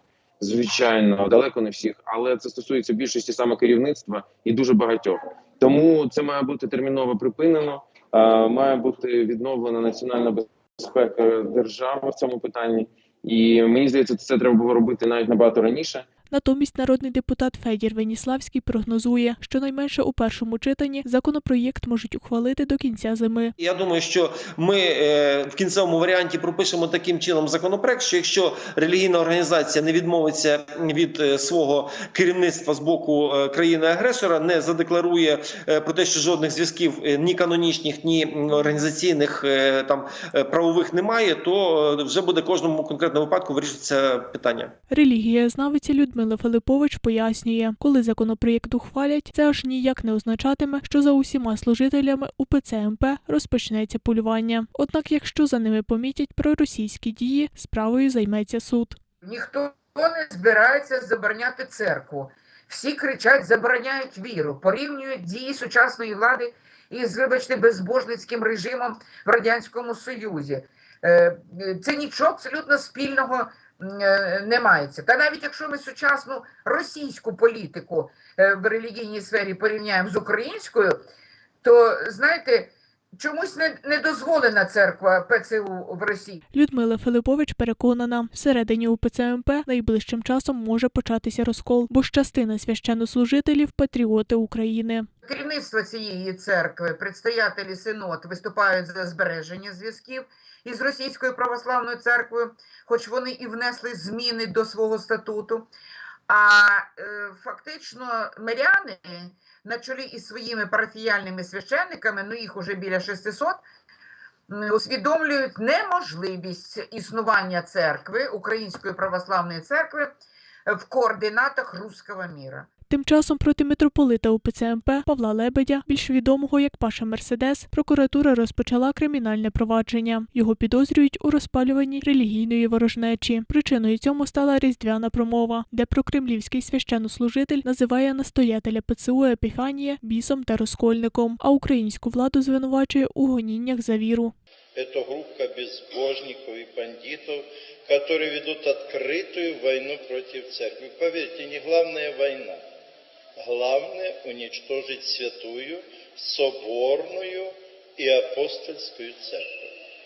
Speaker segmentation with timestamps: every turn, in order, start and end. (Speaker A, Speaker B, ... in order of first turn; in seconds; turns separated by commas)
Speaker A: 0.4-16.1, Speaker B: 16.3-23.5, Speaker C: 23.6-44.7, Speaker B: 44.9-59.0, Speaker D: 59.2-81.0, Speaker D: 81.6-86.4, Speaker B: 86.5-95.1, Speaker D: 95.2-105.7, Speaker D: 106.3-113.6, Speaker D: 114.5-120.1, Speaker D: 120.7-122.7, Speaker B: 122.9-144.3, Speaker E: 144.7-152.6, Speaker E: 153.4-159.7